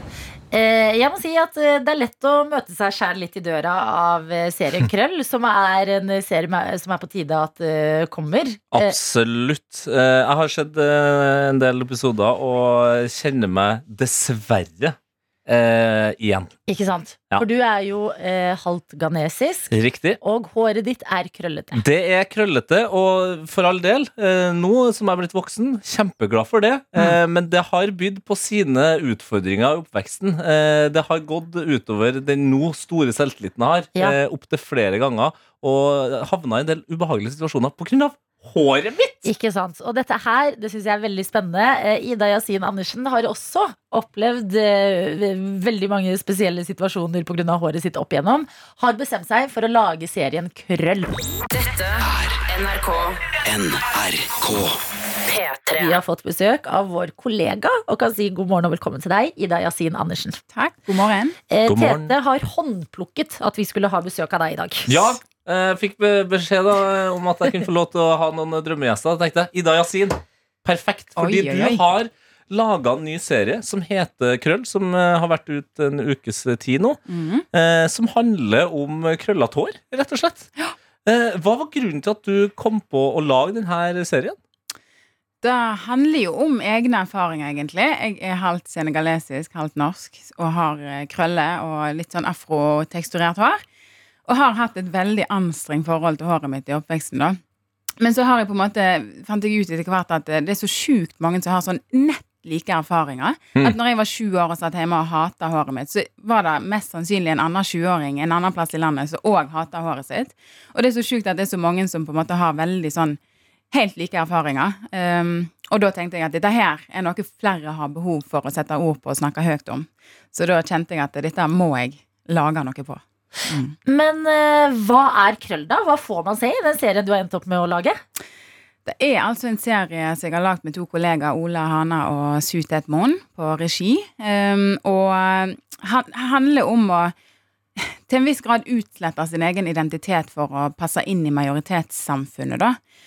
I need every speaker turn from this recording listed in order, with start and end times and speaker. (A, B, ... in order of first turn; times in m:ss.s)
0:00.5-0:09.0 A
0:08.7-0:16.5 B
0:16.7-0:21.8 A
0:19.7-0:20.2 B
0:21.7-0:39.3 B
0:39.2-0:51.1 A
0:51.5-0:53.3 C
0:52.0-0:52.4 D
0:53.4-0:54.8 D
0:55.2-0:56.0 C
0:55.8-1:00.4 A
1:00.5-1:01.4 E
1:01.5-1:04.9 A
1:01.7-1:02.1 B
1:04.9-1:17.0 B
1:11.2-1:11.8 E
1:17.1-1:17.5 E
1:17.5-1:20.5 B
1:21.0-1:24.4 B
1:25.4-1:33.6 E
1:34.3-1:37.4 E
1:38.0-1:53.2 E
1:53.7-2:03.8 E
2:03.9-2:08.0 A
2:08.9-2:17.1 E
2:17.8-2:22.8 E